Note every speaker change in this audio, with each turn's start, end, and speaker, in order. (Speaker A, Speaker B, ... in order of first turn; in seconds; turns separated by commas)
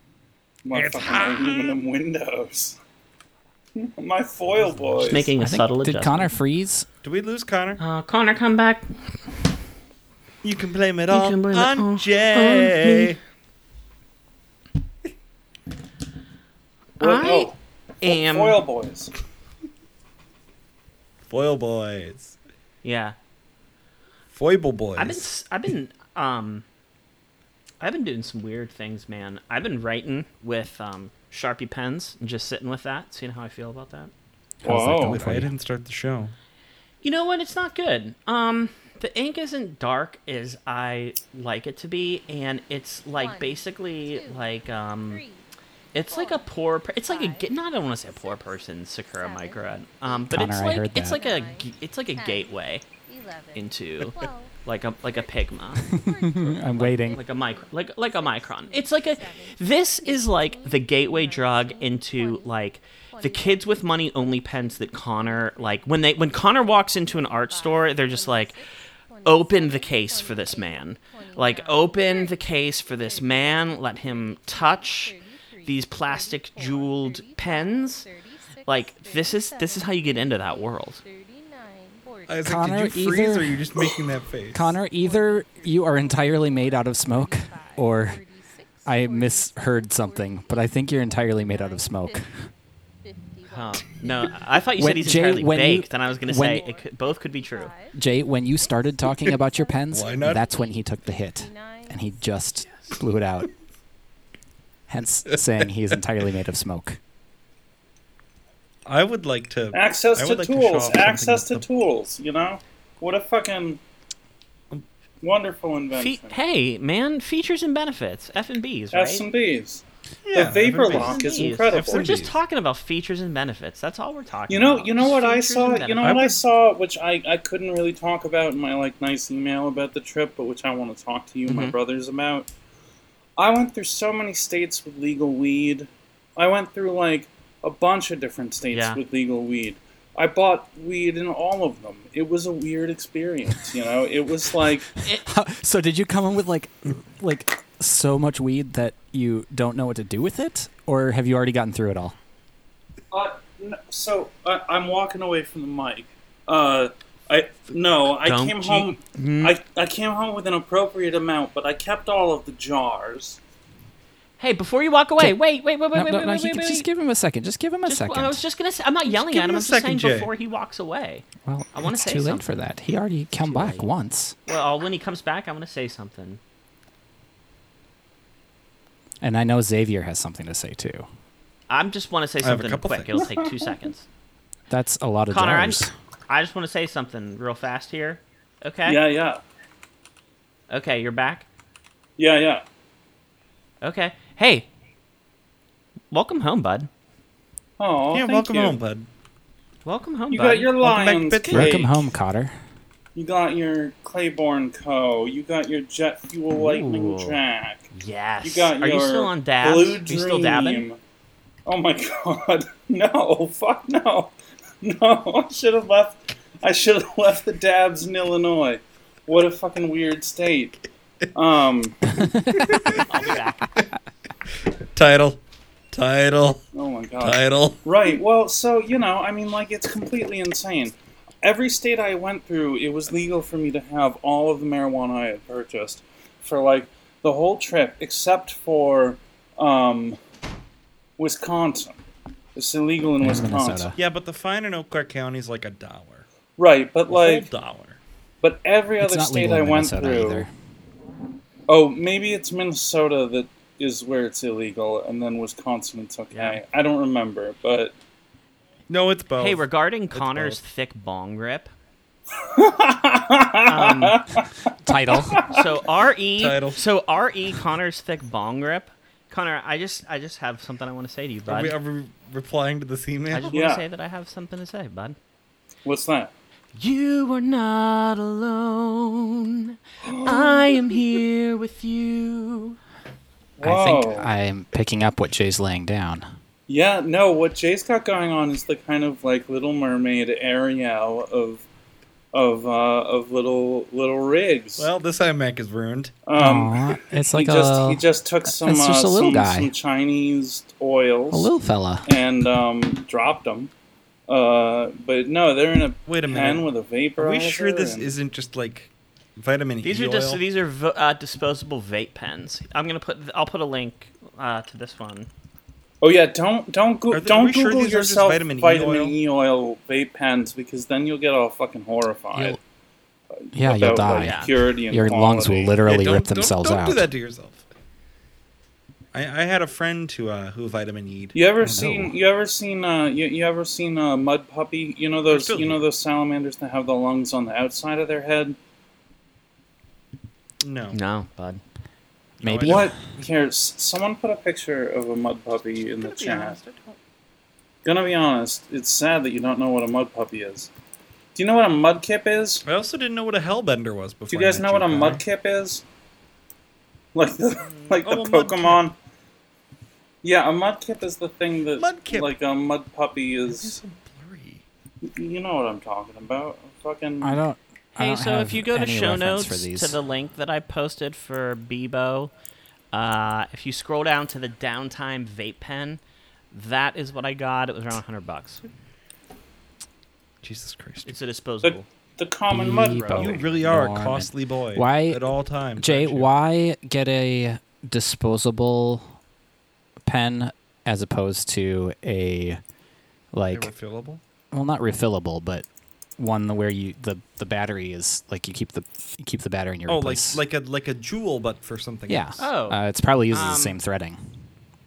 Speaker A: 0.6-2.8, Speaker B: 0.7-1.8, Speaker A: 3.8-5.3, Speaker B: 4.5-5.1, Speaker C: 5.0-6.3, Speaker D: 5.4-6.9, Speaker B: 7.0-7.8, Speaker C: 7.8-9.3, Speaker B: 10.4-13.2, Speaker C: 11.1-13.2, Speaker C: 17.0-18.6, Speaker A: 17.0-19.1, Speaker B: 21.3-22.4, Speaker C: 22.8-23.1, Speaker B: 24.3-25.3, Speaker C: 25.0-26.6, Speaker C: 27.8-34.1, Speaker D: 34.6-35.5, Speaker A: 34.6-35.3, Speaker B: 34.8-36.3, Speaker C: 37.0-45.2, Speaker E: 43.2-44.5, Speaker E: 45.1-45.5, Speaker C: 45.9-52.8, Speaker E: 46.1-46.4, Speaker E: 47.1-48.6, Speaker E: 49.2-82.4, Speaker D: 50.3-51.2, Speaker C: 53.5-55.8, Speaker D: 55.8-57.2, Speaker C: 56.4-68.6, Speaker C: 69.2-75.2, Speaker C: 75.7-78.1, Speaker C: 78.7-81.0, Speaker B: 82.3-84.8, Speaker D: 82.4-83.7, Speaker D: 84.5-88.2, Speaker E: 84.8-92.3, Speaker D: 88.8-92.3, Speaker E: 93.0-93.9, Speaker C: 93.5-97.7, Speaker D: 94.8-96.6, Speaker E: 96.0-98.0, Speaker D: 97.9-103.5, Speaker E: 98.5-102.2, Speaker B: 99.9-100.5, Speaker D: 104.9-107.0, Speaker B: 105.3-105.7, Speaker B: 108.9-111.6, Speaker A: 109.7-113.8, Speaker A: 115.2-116.4, Speaker C: 115.9-119.3, Speaker A: 118.9-122.1, Speaker B: 120.3-122.4, Speaker C: 120.8-126.3, Speaker A: 124.5-132.5, Speaker B: 126.0-126.4, Speaker C: 131.5-131.8, Speaker A: 133.4-144.9, Speaker C: 138.7-139.0, Speaker D: 145.1-152.2, Speaker A: 153.1-163.4, Speaker C: 158.2-159.6, Speaker C: 164.4-166.9, Speaker D: 165.9-168.4, Speaker C: 167.9-172.5, Speaker B: 169.1-170.3, Speaker D: 171.4-174.4, Speaker C: 173.4-173.9, Speaker C: 174.5-176.4, Speaker D: 179.2-181.1, Speaker C: 181.7-184.1, Speaker B: 182.4-183.2, Speaker D: 184.7-185.9, Speaker C: 185.3-189.0, Speaker A: 188.9-189.4, Speaker C: 190.7-191.5, Speaker A: 192.2-192.6, Speaker C: 193.8-194.7, Speaker C: 196.1-196.9, Speaker A: 197.8-198.8, Speaker B: 198.1-199.1, Speaker C: 199.8-200.7, Speaker A: 200.3-202.0, Speaker B: 200.8-201.9, Speaker D: 201.5-202.6, Speaker A: 203.2-207.9, Speaker C: 206.5-207.4, Speaker C: 207.9-210.9, Speaker A: 208.4-211.0, Speaker A: 211.7-220.8, Speaker A: 221.3-222.1, Speaker D: 222.2-222.8, Speaker B: 222.5-223.1, Speaker C: 223.1-223.8, Speaker B: 224.7-225.4, Speaker B: 225.9-226.6, Speaker A: 226.7-240.2, Speaker B: 227.2-227.8, Speaker A: 241.2-242.0, Speaker A: 242.6-243.9, Speaker D: 243.2-244.0, Speaker B: 243.9-246.3, Speaker A: 246.6-247.5, Speaker B: 247.1-248.0, Speaker A: 248.4-250.5, Speaker D: 249.0-250.5, Speaker A: 251.7-257.9, Speaker C: 256.3-256.6, Speaker B: 258.9-260.6, Speaker C: 259.4-261.7, Speaker A: 262.4-265.7, Speaker C: 263.7-264.2, Speaker D: 264.8-265.4, Speaker C: 265.5-271.8, Speaker B: 266.4-266.8, Speaker B: 271.5-273.6, Speaker C: 273.3-275.2, Speaker A: 273.5-273.9, Speaker A: 275.9-276.3, Speaker C: 276.7-282.8, Speaker A: 280.0-280.8, Speaker A: 283.6-284.3, Speaker D: 283.6-286.2, Speaker A: 286.7-291.6, Speaker A: 292.3-294.9, Speaker B: 294.8-296.2, Speaker A: 296.2-301.5, Speaker D: 296.4-299.7, Speaker D: 301.3-302.1, Speaker A: 302.1-303.7, Speaker A: 304.3-308.1, Speaker B: 306.1-310.4, Speaker C: 309.8-315.3, Speaker A: 316.0-322.6, Speaker B: 317.1-319.2, Speaker D: 322.3-322.6, Speaker A: 323.4-325.8, Speaker D: 323.5-327.1, Speaker C: 324.1-324.5, Speaker B: 325.8-327.7, Speaker B: 329.1-331.4, Speaker A: 331.3-338.6, Speaker D: 331.6-332.2, Speaker B: 335.3-335.8, Speaker B: 340.6-341.0, Speaker C: 340.9-341.6, Speaker B: 342.4-343.3, Speaker D: 342.4-342.9, Speaker A: 342.6-346.6, Speaker B: 346.0-347.0, Speaker A: 347.8-350.7, Speaker A: 351.4-352.7, Speaker B: 352.7-355.2, Speaker A: 354.3-355.8, Speaker A: 357.1-359.0, Speaker C: 357.6-358.1, Speaker B: 358.0-358.8, Speaker A: 360.2-363.8, Speaker B: 361.7-362.4, Speaker B: 363.5-364.6, Speaker A: 365.0-367.4, Speaker D: 367.2-370.0, Speaker C: 368.0-372.3, Speaker C: 372.9-376.0, Speaker C: 376.5-378.6, Speaker B: 380.4-381.2, Speaker C: 381.1-381.9, Speaker A: 381.6-383.5, Speaker D: 382.5-385.2, Speaker B: 383.1-386.3, Speaker D: 385.8-389.2, Speaker D: 390.1-392.6, Speaker D: 393.3-393.7, Speaker B: 393.5-394.2, Speaker D: 394.5-395.7, Speaker D: 396.2-400.4, Speaker B: 399.9-402.5, Speaker D: 402.1-404.4, Speaker C: 402.4-402.8, Speaker C: 403.3-403.8